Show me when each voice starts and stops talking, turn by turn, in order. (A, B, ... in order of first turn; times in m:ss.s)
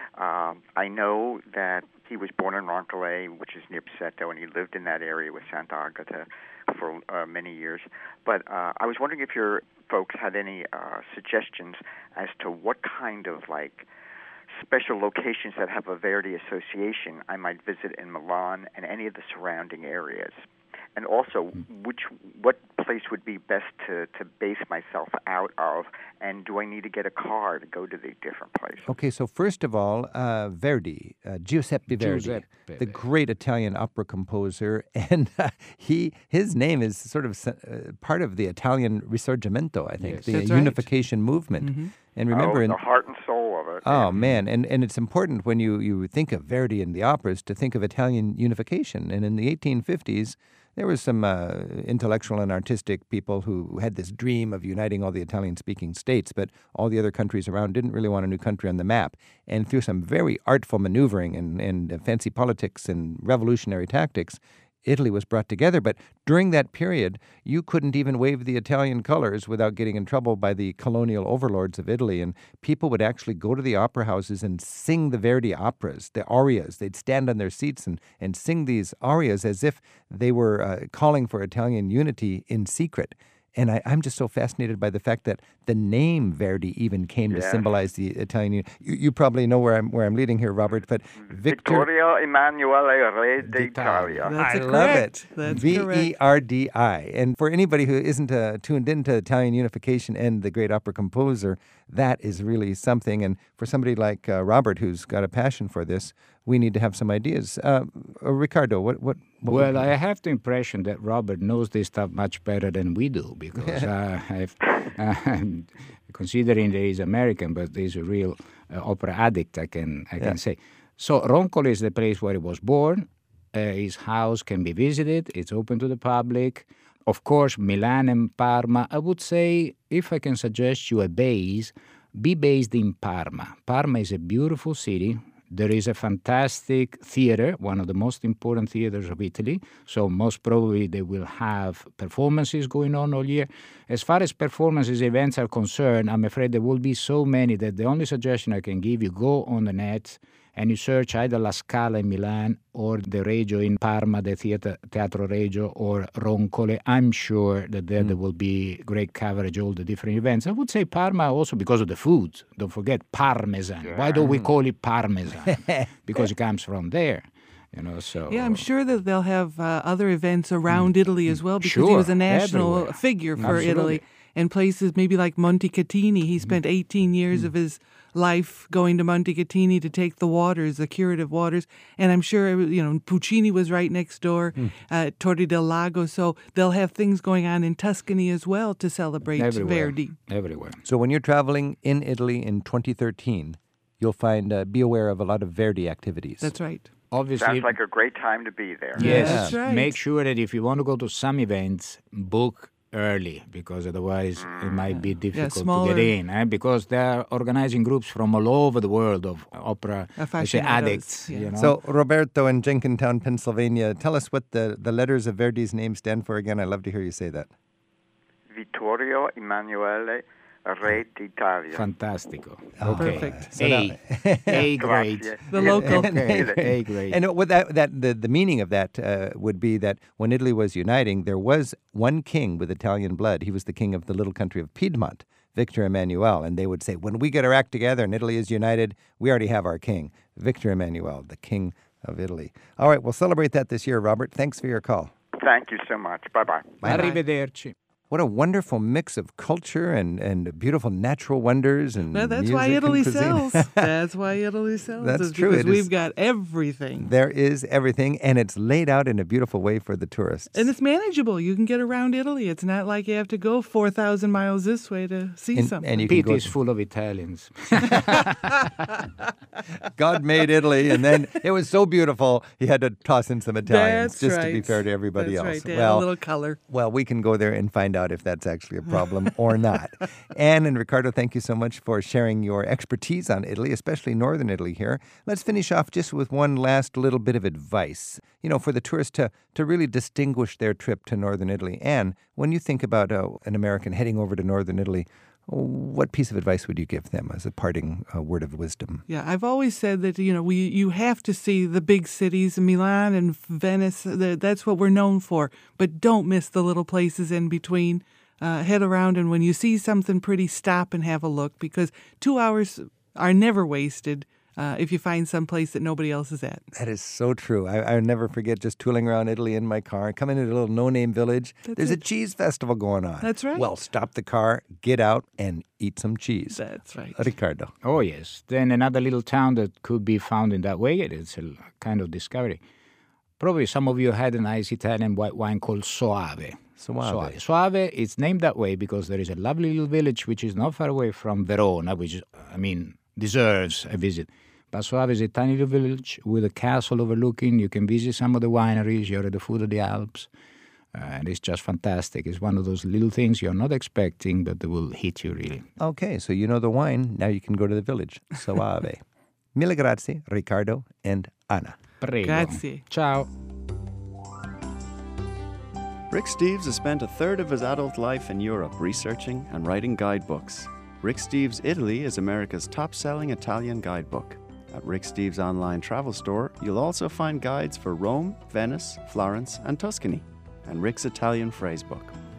0:00.2-0:13.9 A
0:14.6-0:20.3 A
0:21.0-0:28.9 A
0:28.8-0:42.8 B
0:31.9-0:33.0 C
0:40.0-0:40.5 C
0:40.3-0:40.9 D
0:41.6-0:41.9 D
0:42.3-0:44.2 A
0:43.8-1:31.9 B
1:27.3-1:27.6 A
1:31.4-1:34.4 A
1:33.4-1:34.3 C
1:34.3-1:36.1 D
1:34.3-1:49.9 B
1:49.5-2:48.6 C
1:53.6-1:53.9 B
2:44.0-2:44.5 B
2:48.3-3:10.1 D
2:51.6-2:54.0 C
2:53.4-2:53.8 B
3:09.3-3:10.8 C
3:10.8-3:16.5 B
3:16.4-3:16.9 D
3:17.1-3:17.8 C
3:17.4-3:19.1 A
3:19.0-3:20.0 D
3:19.0-3:31.8 C
3:19.0-3:19.6 B
3:24.9-3:26.1 D
3:30.2-3:31.5 D
3:31.6-3:37.5 B
3:38.5-3:41.8 A
3:41.7-3:47.2 C
3:42.8-3:44.7 B
3:42.9-3:43.6 D
3:44.5-3:46.6 A
3:45.5-3:46.1 D
3:45.6-4:05.1 B
4:05.4-4:06.8 A
4:06.8-4:07.1 B
4:06.8-4:07.7 C
4:06.9-4:07.2 D
4:08.1-4:13.6 B
4:12.1-4:17.1 D
4:15.0-4:15.9 B
4:17.0-4:20.7 B
4:20.5-4:26.0 D
4:25.5-4:26.5 B
4:26.0-4:28.3 C
4:29.9-4:36.1 B
4:33.6-4:36.6 D
4:36.7-4:59.0 B
4:59.1-5:16.6 D
5:16.7-5:26.6 B
5:21.7-5:22.0 D
5:23.2-5:23.7 D
5:26.5-5:27.3 D
5:27.1-5:27.7 B
5:27.8-5:32.6 C
5:33.4-5:50.3 C
5:36.8-5:37.4 B
5:50.9-5:55.7 C
5:55.8-5:59.0 B
5:59.5-6:01.8 B
6:02.0-6:03.3 C
6:02.2-6:02.8 D
6:06.1-6:22.2 E